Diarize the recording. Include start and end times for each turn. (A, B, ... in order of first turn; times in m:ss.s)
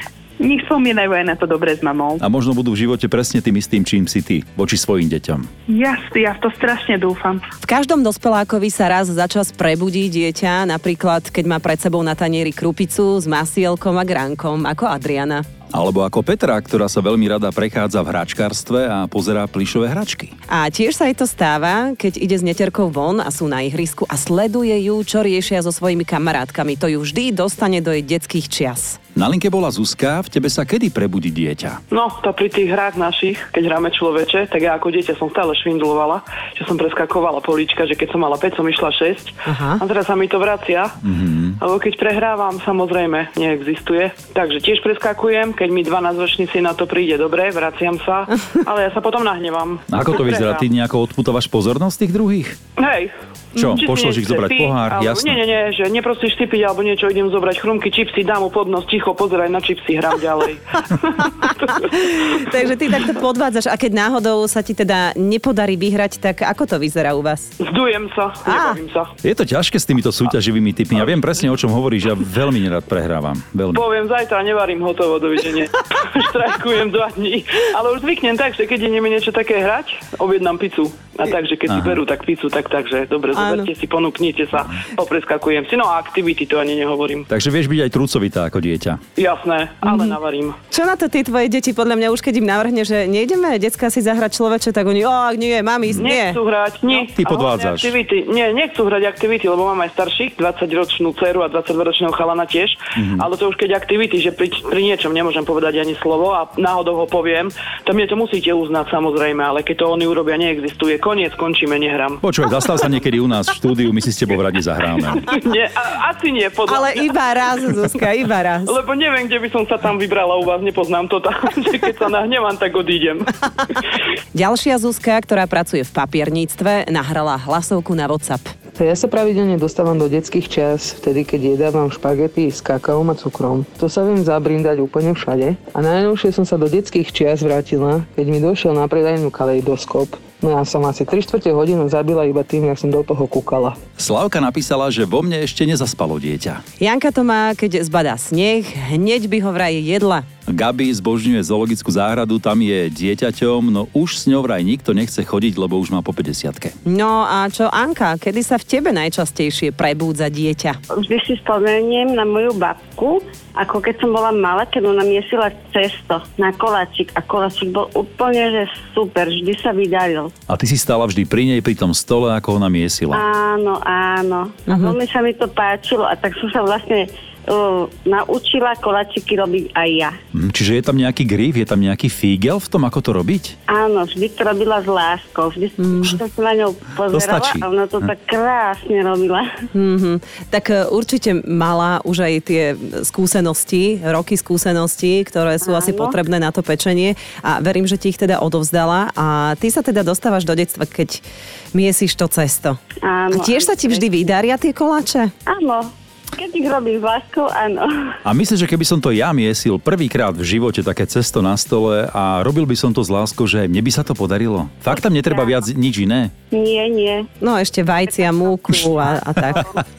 0:00.4-0:02.2 A
0:02.2-0:05.5 B
0:05.7-0:07.4 A
0:07.6-0:15.5 C
0:15.7-0:20.3 B
0:20.5-0:29.0 C
0:29.2-0:31.8 B
0:31.9-0:41.0 D
0:39.5-0:39.8 C
0:41.0-0:41.6 B
0:41.6-0:50.7 D
0:49.9-0:52.6 B
0:52.8-1:01.8 D
0:53.6-0:55.4 B
1:01.2-1:07.5 C
1:07.6-1:09.1 D
1:08.5-1:08.8 C
1:09.2-1:13.8 B
1:13.7-1:27.3 D
1:21.7-1:22.0 B
1:23.3-1:23.7 C
1:27.3-1:29.0 B
1:29.2-1:30.6 D
1:29.8-1:30.2 C
1:30.7-1:36.4 C
1:36.0-1:52.2 D
1:37.1-1:38.0 B
1:43.0-1:43.3 B
1:52.2-1:55.3 B
1:55.2-1:57.3 D
1:56.7-1:58.7 C
1:58.6-2:03.9 D
2:04.3-2:08.6 C
2:08.8-2:23.8 E
2:24.0-2:26.6 B
2:26.8-2:30.2 C
2:30.5-2:36.8 B
2:36.9-2:40.8 C
2:40.9-2:50.3 F
2:50.5-2:53.2 B
2:53.1-3:00.1 F
2:54.7-2:55.0 C
3:00.3-3:03.6 B
3:03.7-3:09.5 F
3:05.8-3:06.2 C
3:07.1-3:07.7 B
3:09.7-3:21.2 C
3:15.6-3:16.2 F
3:21.7-3:25.3 C
3:23.0-3:24.0 F
3:25.5-3:28.2 F
3:28.2-3:36.3 B
3:35.2-3:35.4 F
3:36.5-3:37.3 F
3:37.4-3:39.7 C